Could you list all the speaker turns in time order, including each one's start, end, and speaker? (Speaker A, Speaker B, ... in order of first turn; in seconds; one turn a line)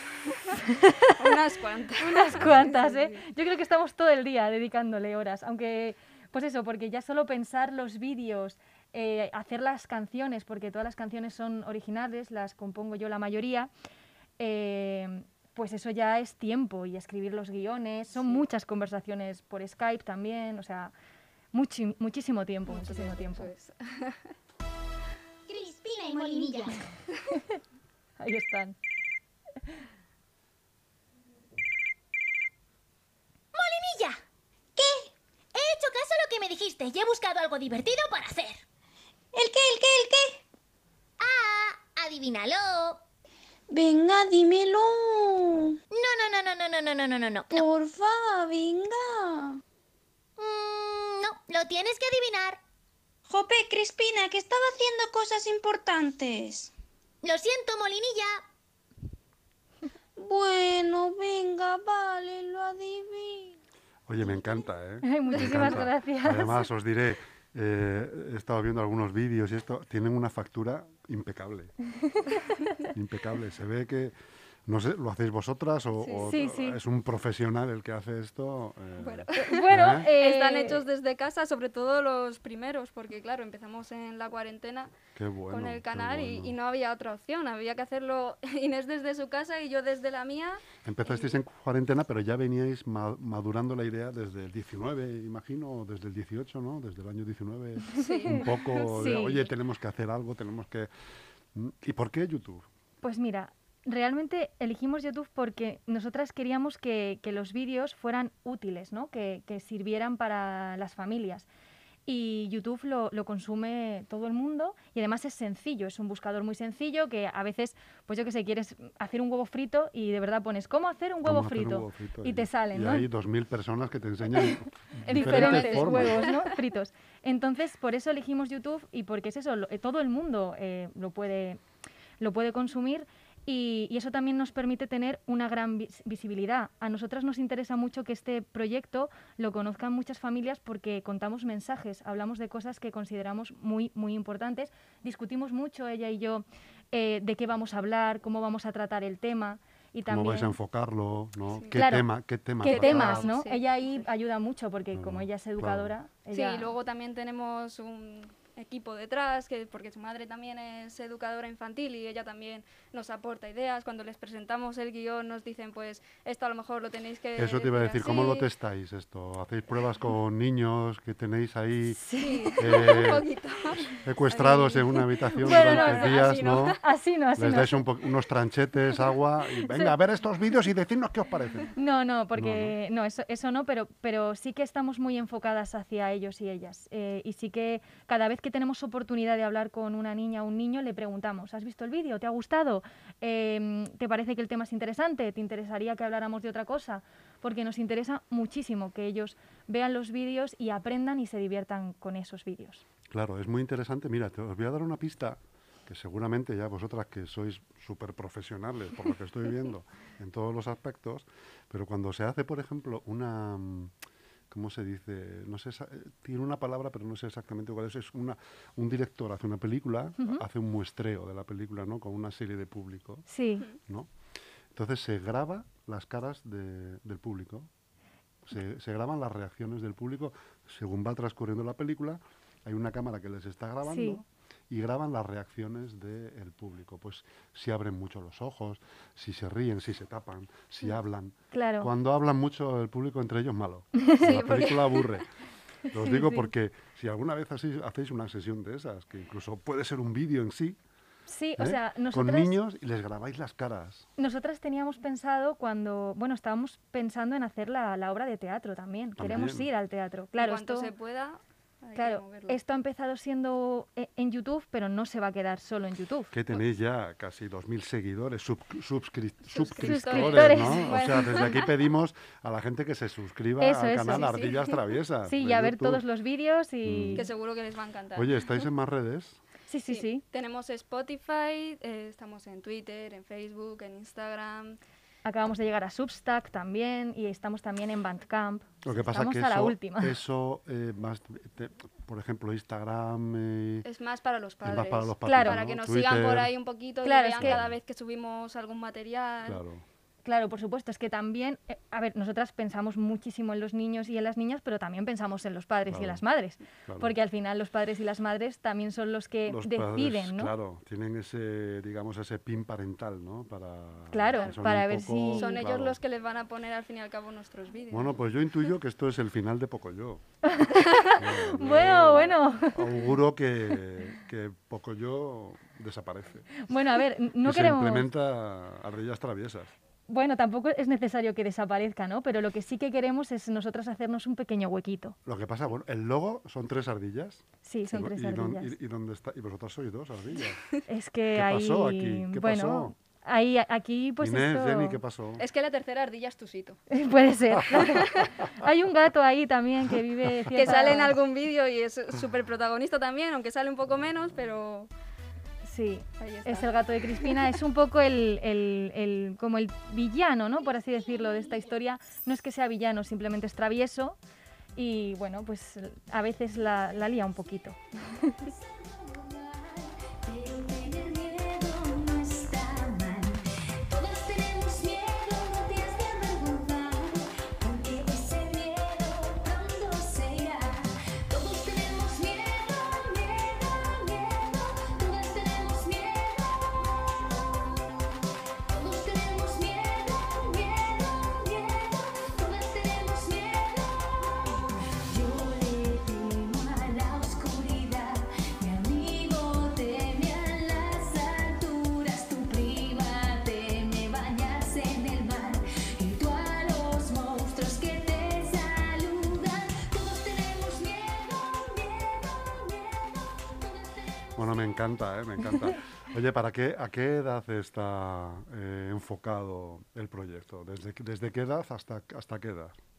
Speaker A: 0.3-0.6
Speaker B: 0.6-1.1
Speaker A: 1.1-3.2
Speaker B: 2.0-13.7
Speaker C: 2.3-2.7
Speaker B: 14.4-20.9
Speaker A: 18.2-18.4
Speaker B: 21.5-23.5
Speaker A: 22.7-24.3
Speaker D: 25.5-26.9
Speaker B: 28.2-28.8
Speaker D: 33.5-34.2
Speaker E: 34.8-35.1
Speaker D: 35.5-38.6
Speaker E: 39.3-40.4
Speaker D: 41.2-43.0
Speaker E: 43.7-45.8
Speaker D: 45.9-47.7
Speaker E: 47.5-49.6
Speaker D: 50.4-52.6
Speaker E: 53.3-56.7
Speaker D: 57.2-58.4
Speaker E: 60.2-63.5
Speaker C: 64.1-71.7
Speaker B: 65.0-66.7
Speaker C: 72.9-74.2
Speaker C: 74.7-80.1
Speaker A: 76.0-76.3
Speaker B: 76.2-76.8
Speaker A: 79.0-85.0
Speaker B: 79.3-80.8
Speaker C: 85.2-86.6
Speaker A: 85.5-91.4
Speaker C: 90.8-100.9
Speaker A: 97.9-99.5
Speaker B: 98.0-99.5
Speaker C: 101.5-102.7
Speaker B: 103.0-111.5
Speaker B: 112.1-123.1
Speaker C: 121.2-126.3
Speaker B: 125.0-131.6
Speaker A: 125.1-126.5
Speaker B: 132.2-150.6
Speaker C: 150.1-153.3
Speaker A: 151.5-151.8
Speaker B: 151.7-156.8
Speaker A: 152.6-153.6
Speaker C: 154.9-155.9
Speaker A: 156.3-168.5
Speaker C: 167.4-172.0
Speaker B: 172.0-173.1
Speaker A: 172.2-176.8
Speaker C: 172.6-173.3
Speaker C: 173.8-176.8
Speaker B: 175.4-177.8
Speaker C: 177.4-181.7
Speaker B: 179.7-179.9
Speaker B: 181.8-202.8
Speaker C: 182.3-182.8
Speaker C: 203.1-213.9
Speaker C: 214.5-223.3
Speaker B: 223.3-223.7
Speaker C: 223.8-224.1
Speaker C: 224.7-227.7
Speaker C: 228.4-245.3
Speaker B: 233.8-234.2
Speaker B: 241.5-241.9
Speaker B: 244.0-244.3
Speaker A: 244.2-245.2
Speaker B: 245.9-246.5
Speaker C: 245.9-250.8
Speaker B: 251.3-252.6
Speaker C: 251.6-254.1
Speaker B: 254.2-260.9
Speaker C: 259.2-259.7
Speaker A: 260.4-262.6
Speaker B: 262.0-266.3
Speaker C: 266.3-276.0
Speaker A: 269.5-271.7
Speaker B: 269.8-271.0
Speaker B: 273.6-274.4
Speaker A: 274.1-274.8
Speaker B: 275.3-277.3
Speaker C: 276.9-277.3
Speaker A: 277.1-278.6
Speaker C: 278.1-279.4
Speaker B: 279.7-280.2
Speaker A: 279.9-284.8
Speaker B: 285.2-290.2
Speaker C: 288.8-293.9
Speaker A: 293.8-299.6
Speaker C: 294.6-296.5
Speaker B: 295.2-295.6
Speaker B: 297.0-297.6
Speaker C: 297.4-297.8
Speaker C: 299.4-299.8
Speaker B: 300.2-310.5
Speaker C: 305.9-306.2
Speaker C: 306.9-307.1
Speaker C: 309.5-316.0
Speaker B: 314.1-315.6
Speaker A: 314.4-314.6
Speaker A: 315.4-318.2
Speaker C: 317.9-320.2
Speaker B: 320.4-323.1
Speaker A: 320.8-321.1
Speaker C: 321.1-326.5
Speaker B: 326.6-328.1
Speaker C: 327.4-329.7
Speaker B: 330.1-335.2
Speaker C: 335.3-340.6
Speaker B: 337.6-338.8
Speaker B: 340.9-345.0
Speaker C: 341.3-342.9
Speaker C: 344.2-345.4
Speaker A: 345.4-346.8
Speaker B: 346.9-351.2
Speaker A: 347.8-348.4
Speaker A: 350.5-354.9
Speaker B: 355.6-364.2
Speaker A: 356.2-356.7
Speaker B: 364.8-368.5
Speaker F: 368.4-387.8
Speaker F: 388.7-414.8
Speaker C: 414.4-422.8